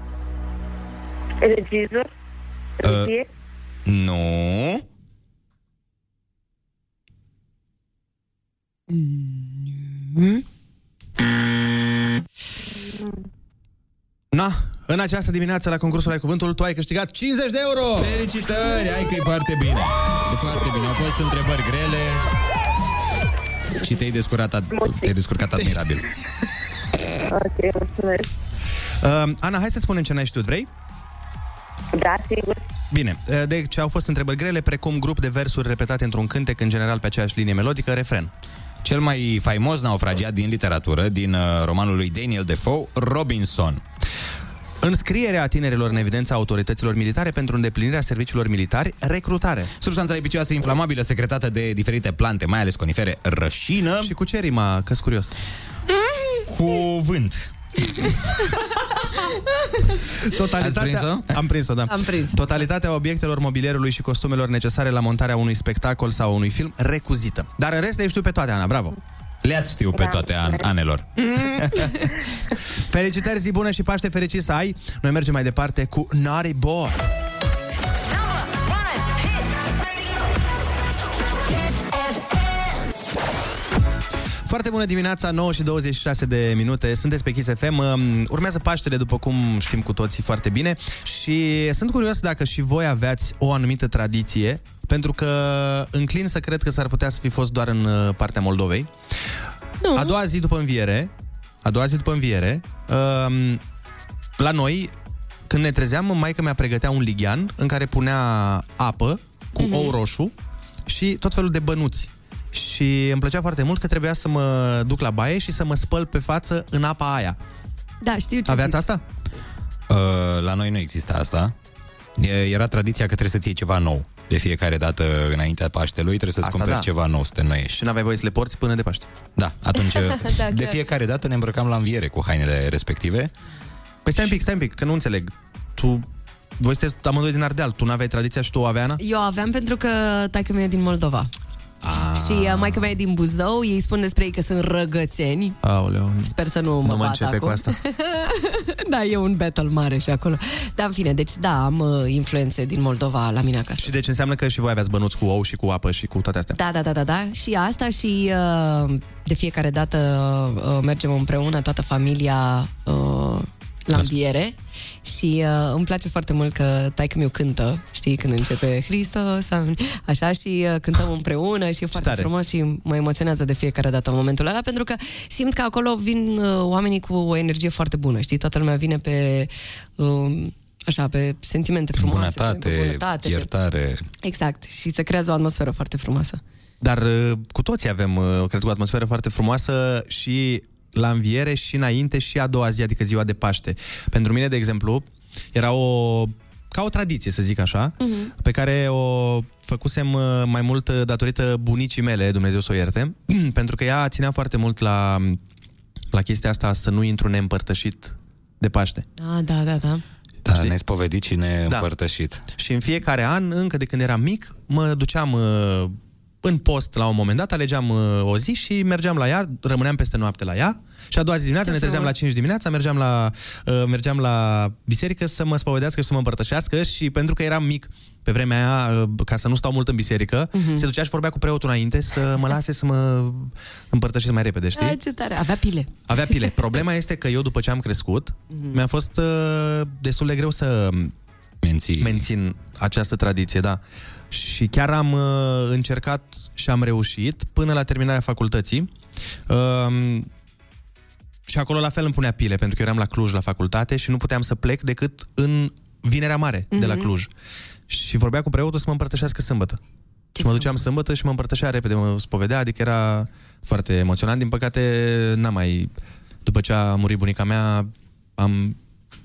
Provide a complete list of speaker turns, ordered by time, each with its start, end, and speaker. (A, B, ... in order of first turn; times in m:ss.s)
0:01.4-0:02.1 A
0:02.8-0:03.3 A
0:02.8-0:03.1 B
0:03.8-0:04.8 B
0:08.9-0:10.4 C
0:14.3-0:18.2 D
0:18.0-0:22.2 B
0:23.8-0:26.0 B
0:24.7-0:25.1 A
0:27.2-0:28.3 A
0:29.0-0:30.7 D
0:31.9-0:32.6 A
0:32.9-0:38.3 D
0:38.8-0:43.8 B
0:44.8-0:49.7 D
0:49.8-0:54.1 B
0:54.0-0:55.3 D
0:56.0-0:56.4 C
0:56.5-0:57.5 B
1:00.2-1:08.9 D
1:00.6-1:01.4 B
1:01.9-1:02.4 C
1:09.4-1:11.9 B
1:09.9-1:10.7 A
1:11.2-1:12.1 C
1:12.9-1:17.1 D
1:24.4-1:38.9 D
1:39.8-1:40.2 C
1:39.9-1:41.1 D
1:41.6-1:43.6 D
1:44.4-1:44.9 D
1:45.5-1:50.3 D
1:49.6-1:49.9 C
1:50.9-1:57.4 D
1:58.0-1:58.8 C
1:58.5-1:59.0 D
1:59.9-2:01.5 B
2:02.2-2:07.8 B
2:06.4-2:06.9 D
2:07.7-2:09.1 D
2:09.4-2:13.3 B
2:09.9-2:10.8 C
2:14.0-2:16.1 D
2:16.6-2:19.0 D
2:19.0-2:21.3 C
2:21.8-2:22.7 D
2:22.1-2:25.6 C
2:25.6-2:27.8 D
2:26.2-2:33.9 C
2:33.8-2:36.6 D
2:36.5-3:03.5 C
2:51.9-2:52.3 D
3:02.0-3:04.0 B
3:04.2-3:06.4 C
3:06.8-3:25.4 D
3:18.0-3:18.3 C
3:26.1-3:29.0 D
3:29.2-3:30.0 C
3:30.4-3:32.4 B
3:32.6-3:55.0 D
3:41.6-3:42.1 C
3:50.5-3:50.9 C
3:54.8-3:56.3 C
3:56.1-4:01.1 D
3:58.5-3:58.8 C
4:01.6-4:02.2 B
4:02.0-4:08.9 D
4:09.5-4:10.3 D
4:11.5-4:17.3 D
4:16.7-4:17.1 C
4:17.9-4:19.8 D
4:20.4-4:20.8 C
4:20.4-4:25.9 D
4:26.4-4:28.8 D